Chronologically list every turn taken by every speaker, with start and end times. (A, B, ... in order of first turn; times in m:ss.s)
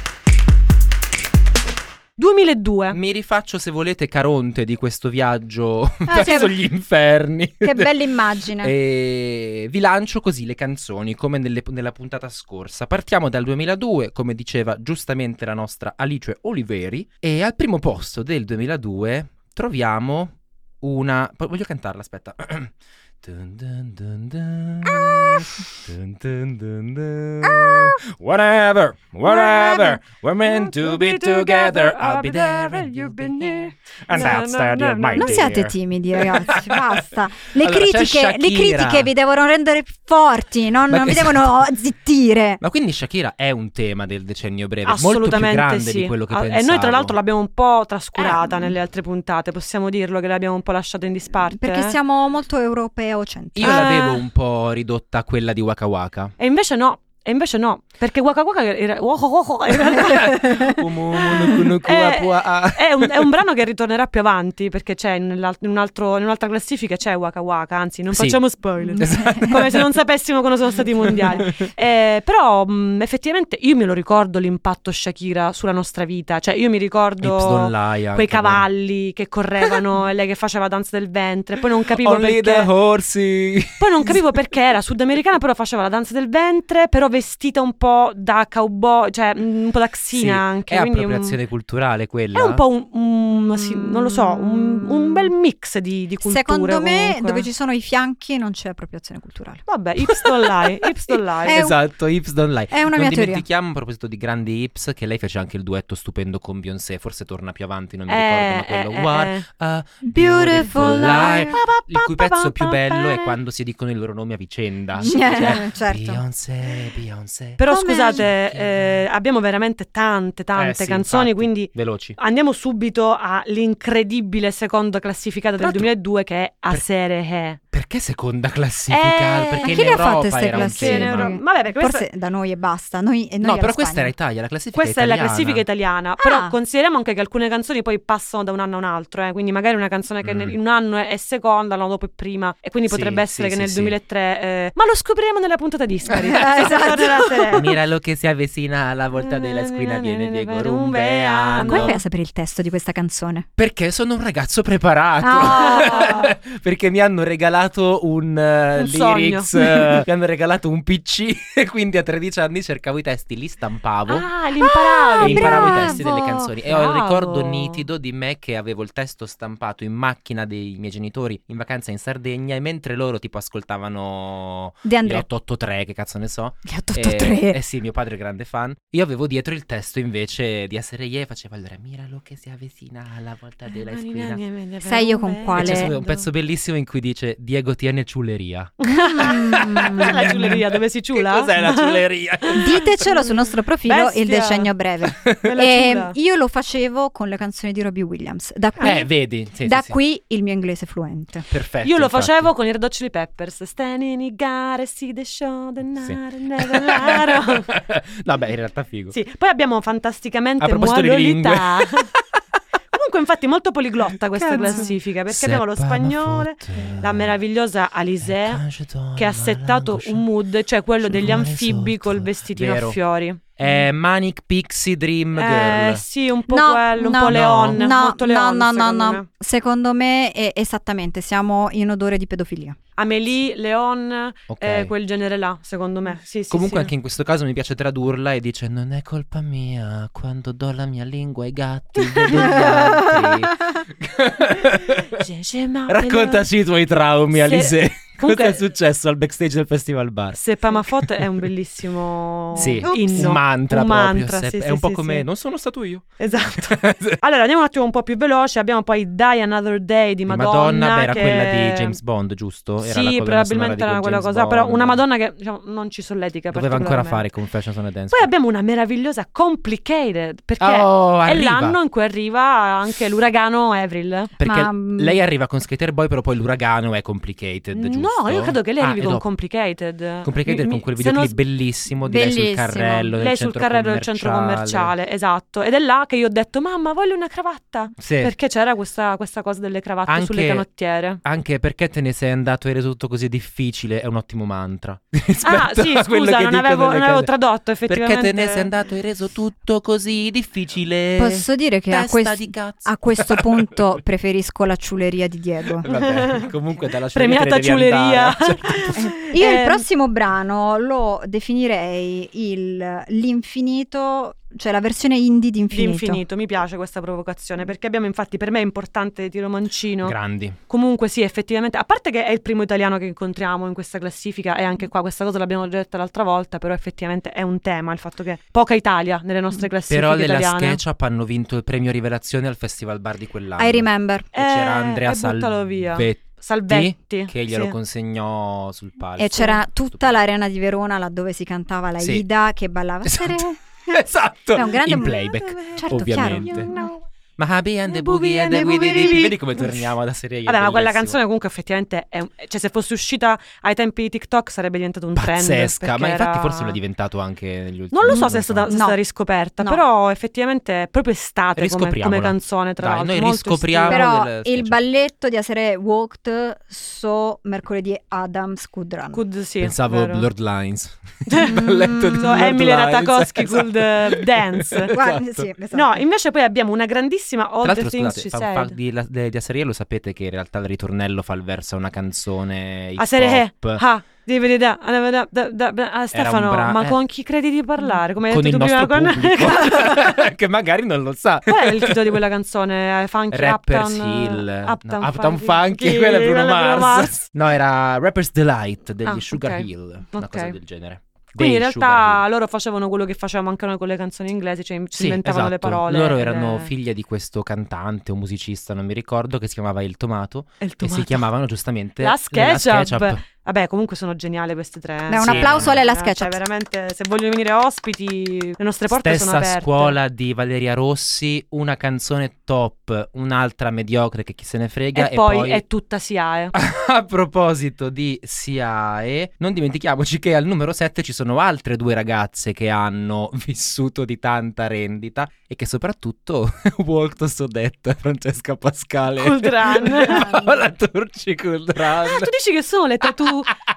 0:02.2-0:03.0 A
0:02.9-0:07.9 B
0:06.1-0:06.6 C
0:07.6-0:08.7 C
0:08.6-0:37.0 B
0:24.9-0:25.5 C
0:27.4-0:28.0 C
0:29.3-0:35.6 A
0:35.2-0:42.6 C
0:37.5-0:39.1 B
0:40.9-0:41.7 B
0:42.6-0:47.2 B
0:44.9-0:52.0 A
0:48.2-0:48.8 C
0:51.5-0:54.1 C
0:53.6-0:56.3 B
0:53.6-0:54.2 A
0:56.4-1:22.7 A
0:59.8-1:03.3 B
1:08.1-1:08.4 B
1:08.8-1:09.6 C
1:09.0-1:10.0 B
1:11.0-1:11.7 B
1:17.2-1:18.7 B
1:22.0-1:24.2 B
1:23.8-1:31.4 A
1:30.1-1:32.6 B
1:32.3-1:37.5 A
1:33.6-1:35.3 C
1:36.2-1:39.6 C
1:39.7-1:41.7 A
1:40.1-1:40.7 B
1:41.4-1:59.0 B
1:41.4-1:41.8 C
1:42.7-1:43.4 C
1:48.1-1:49.4 A
1:50.1-1:51.6 C
1:50.6-1:53.4 A
1:55.0-1:56.2 C
1:57.6-2:07.6 A
1:57.7-1:58.3 C
2:00.6-2:02.2 B
2:05.6-2:05.9 B
2:07.7-2:11.4 B
2:08.9-2:12.0 A
2:09.6-2:14.1 C
2:13.4-2:15.6 B
2:14.8-2:27.7 A
2:16.2-2:16.6 C
2:20.2-2:20.6 B
2:22.9-2:24.0 B
2:26.2-2:27.7 C
2:27.6-2:32.0 B
2:29.2-2:32.0 A
2:31.6-2:33.5 C
2:33.6-2:44.3 B
2:35.2-2:36.2 C
2:35.4-2:36.3 A
2:38.8-2:40.0 A
2:44.1-2:46.1 A
2:44.6-2:46.5 C
2:45.2-3:04.4 B
2:46.6-2:47.8 A
2:54.8-2:55.2 C
2:56.6-2:57.6 C
3:03.9-3:06.3 A
3:04.8-3:06.0 C
3:05.5-3:13.0 B
3:08.8-3:14.7 A
3:09.0-3:10.4 C
3:12.6-3:19.1 C
3:15.1-3:15.4 B
3:15.4-3:16.2 A
3:18.8-3:20.0 B
3:19.6-3:21.5 C
3:21.5-3:22.5 B
3:21.8-3:27.7 A
3:26.0-3:29.2 B
3:29.1-3:32.1 A
3:30.6-3:32.2 B
3:32.9-3:38.6 A
3:34.4-3:37.4 B
3:38.2-3:40.3 B
3:39.2-3:43.4 A
3:41.1-3:43.0 B
3:43.6-3:46.0 B
3:45.4-3:49.3 A
3:46.5-3:52.8 C
3:47.2-3:47.8 B
3:53.0-3:56.9 A
3:54.5-3:54.9 B
3:56.5-4:05.2 B
4:02.4-4:03.4 C
4:05.1-4:06.5 A
4:05.9-4:10.4 B
4:07.3-4:08.6 A
4:10.3-4:15.3 A
4:11.0-4:11.3 B
4:12.6-4:17.2 B
4:12.8-4:13.4 C
4:16.2-4:22.0 A
4:20.3-4:25.0 B
4:22.8-4:27.2 A
4:26.5-4:28.3 B
4:28.1-4:34.3 A
4:30.6-4:31.8 B
4:34.4-4:39.2 B
4:34.4-4:35.2 C
4:37.7-4:41.4 A
4:40.2-4:44.9 B
4:42.0-4:43.2 C
4:43.2-4:51.2 A
4:48.0-4:48.3 B
4:50.1-4:50.6 B
4:51.2-4:57.3 B
4:55.4-4:58.7 A
4:57.9-5:03.8 B
5:01.2-5:05.9 C
5:05.8-5:09.0 B
5:05.9-5:06.5 A
5:07.1-5:09.8 A
5:09.0-5:16.2 C
5:15.7-5:20.2 A
5:20.0-5:20.6 B
5:20.7-5:30.8 A
5:29.9-5:40.2 B
5:33.6-5:34.3 C
5:34.3-5:37.8 A
5:39.2-5:43.9 C
5:42.0-5:42.2 B
5:43.0-5:46.7 B
5:44.6-5:46.9 C
5:45.6-5:47.0 A
5:47.4-5:51.2 B
5:47.9-5:49.9 A
5:48.3-5:49.3 C
5:50.5-5:56.8 A
5:55.2-5:58.7 B
5:57.9-6:04.1 A
5:58.7-5:59.0 C
6:01.6-6:04.8 B
6:03.9-6:09.2 C
6:09.1-6:10.3 A
6:09.6-6:15.5 B
6:11.3-6:11.6 A
6:11.4-6:12.4 C
6:12.2-6:14.9 A
6:14.9-6:15.9 C
6:15.7-6:18.8 A
6:17.6-6:23.8 B
6:23.0-6:30.0 A
6:26.1-6:27.0 B
6:28.2-6:32.2 B
6:31.5-6:37.2 A
6:33.3-6:42.2 B
6:39.0-6:40.6 A
6:41.4-6:46.7 A
6:44.9-6:53.2 B
6:50.6-6:51.2 A
6:52.0-7:00.0 A
6:55.1-6:56.4 C
6:55.2-6:55.8 B
6:58.9-7:05.6 B
7:05.0-7:06.5 A
7:06.5-7:22.3 B
7:19.2-7:20.3 A
7:20.1-7:20.6 C
7:22.0-7:23.5 A